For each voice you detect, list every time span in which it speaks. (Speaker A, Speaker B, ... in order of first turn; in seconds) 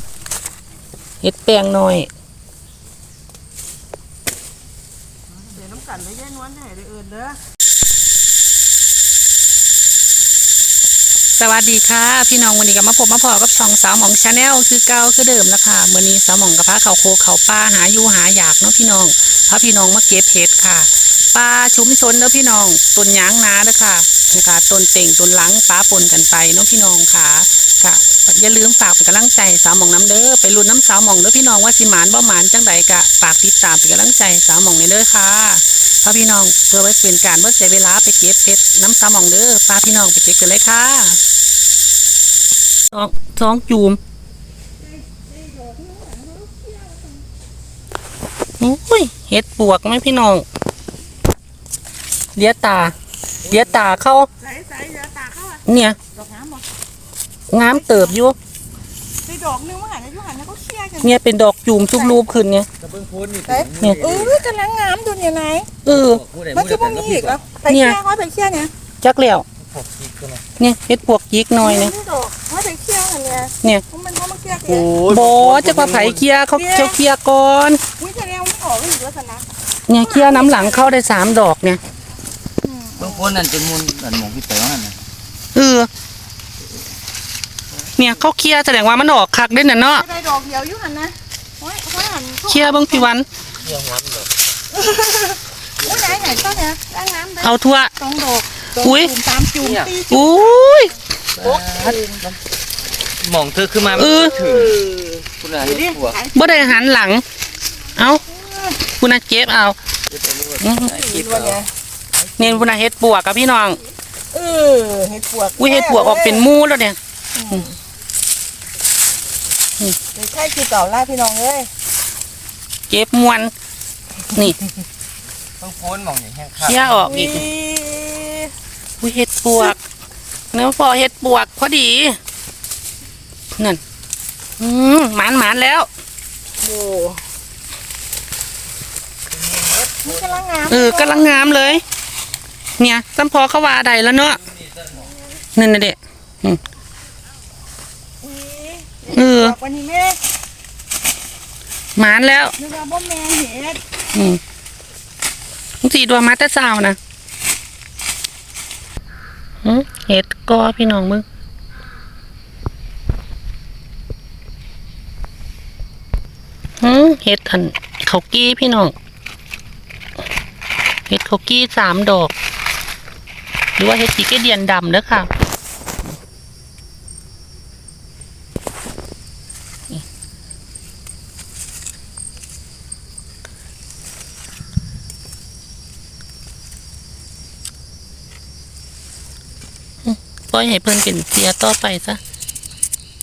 Speaker A: 1.2-2.1, 11.3-41.2, 42.9-44.0, 48.6-50.5, 52.4-54.3, 55.6-56.0, 57.5-58.4, 61.0-62.7, 65.8-66.2, 67.7-68.0, 69.0-69.5, 70.6-71.9, 75.0-77.8, 79.9-81.8, 85.5-85.9, 88.0-90.1, 92.5-93.3, 97.4-97.9, 98.8-99.1, 100.1-100.9, 104.0-104.4, 106.3-107.2, 108.0-108.2, 108.8-109.8, 110.6-111.0, 112.4-113.8, 115.6-117.0, 122.9-123.5, 126.6-127.5, 129.0-129.8, 130.5-132.2, 134.6-135.9, 140.7-141.8, 142.8-144.4, 145.6-146.6, 149.1-149.6, 152.0-152.6, 154.1-154.4, 155.8-157.0, 159.6-161.2, 166.8-168.9, 171.1-172.3, 173.8-175.3, 190.0-192.2
Speaker B: 5.5-7.4, 45.1-47.1, 54.4-56.6, 57.8-58.1, 59.2-61.2, 61.9-62.2, 63.5-65.7, 66.5-68.7, 71.6-74.9, 76.5-77.0, 78.0-79.5, 80.0-80.9, 82.6-83.3, 90.0-93.1, 94.7-100.9, 101.4-102.2, 105.6-106.8, 108.3-108.8, 110.9-111.7, 114.3-116.5, 117.3-117.8, 120.2-121.7, 127.1-128.5, 136.6-137.2, 140.0-141.8, 148.2-150.2, 152.6-153.8
Speaker C: 62.8-64.4, 66.2-67.4, 69.6-70.4, 74.7-76.2, 83.0-85.0, 93.6-94.3, 95.8-96.6, 99.6-99.9, 101.4-102.3, 103.2-106.2, 110.1-111.6, 125.6-127.2, 139.3-140.4